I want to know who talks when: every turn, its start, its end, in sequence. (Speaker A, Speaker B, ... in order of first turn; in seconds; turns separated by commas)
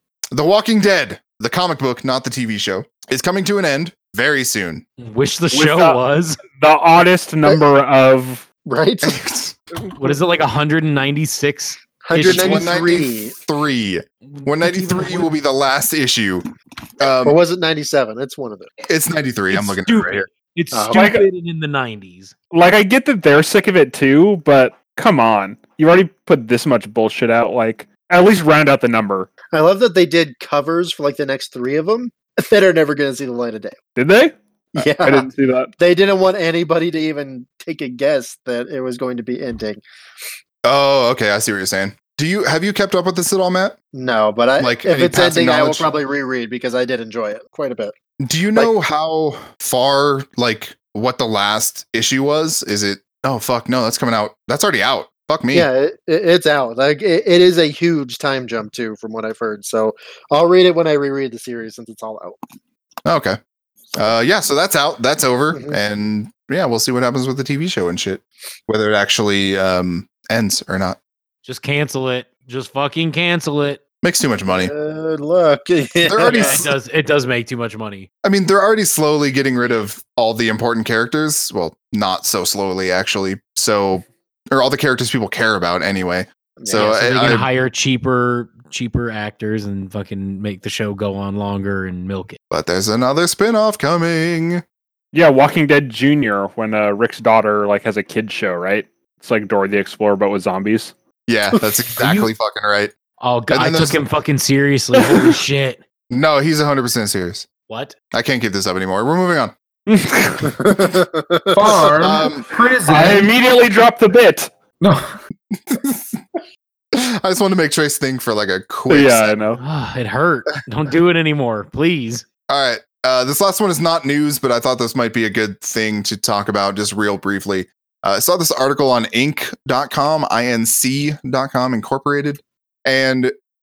Speaker A: 0.3-4.8, Speaker B: 5.0-6.4, Speaker C: 5.5-8.4, Speaker D: 8.7-9.2, Speaker A: 9.0-9.6, Speaker B: 9.9-12.7, Speaker D: 12.0-13.3, Speaker A: 12.2-16.4, Speaker B: 14.3-15.3, Speaker A: 17.0-17.4, Speaker D: 17.2-18.7, Speaker A: 18.9-20.3, Speaker B: 19.5-22.3, Speaker D: 20.7-21.1, Speaker C: 20.9-21.3, Speaker C: 22.5-29.3, Speaker D: 29.5-33.8, Speaker C: 34.0-34.3, Speaker D: 34.8-39.8, Speaker C: 35.0-35.7, Speaker A: 40.6-43.8, Speaker D: 43.9-47.9, Speaker A: 44.6-45.9, Speaker A: 48.2-55.7, Speaker D: 55.5-62.4, Speaker A: 63.0-63.4, Speaker A: 63.9-71.0, Speaker B: 71.4-73.8, Speaker A: 74.0-74.7, Speaker D: 74.5-76.7, Speaker A: 76.0-76.7, Speaker B: 76.2-78.1, Speaker A: 78.2-87.5, Speaker D: 86.6-86.9, Speaker B: 86.7-92.4, Speaker A: 92.5-94.6, Speaker C: 95.1-100.9, Speaker A: 101.3-102.9, Speaker B: 103.2-105.8, Speaker A: 103.5-104.0, Speaker A: 106.1-107.5, Speaker B: 107.7-107.9, Speaker A: 108.1-109.5, Speaker C: 109.9-110.6, Speaker A: 110.6-111.0, Speaker D: 111.2-111.8, Speaker E: 111.5-113.3, Speaker A: 112.0-112.5, Speaker C: 112.8-114.5, Speaker E: 114.8-115.2, Speaker A: 115.5-116.2, Speaker A: 116.9-119.3, Speaker C: 118.9-119.6, Speaker B: 119.6-122.2, Speaker A: 122.5-133.3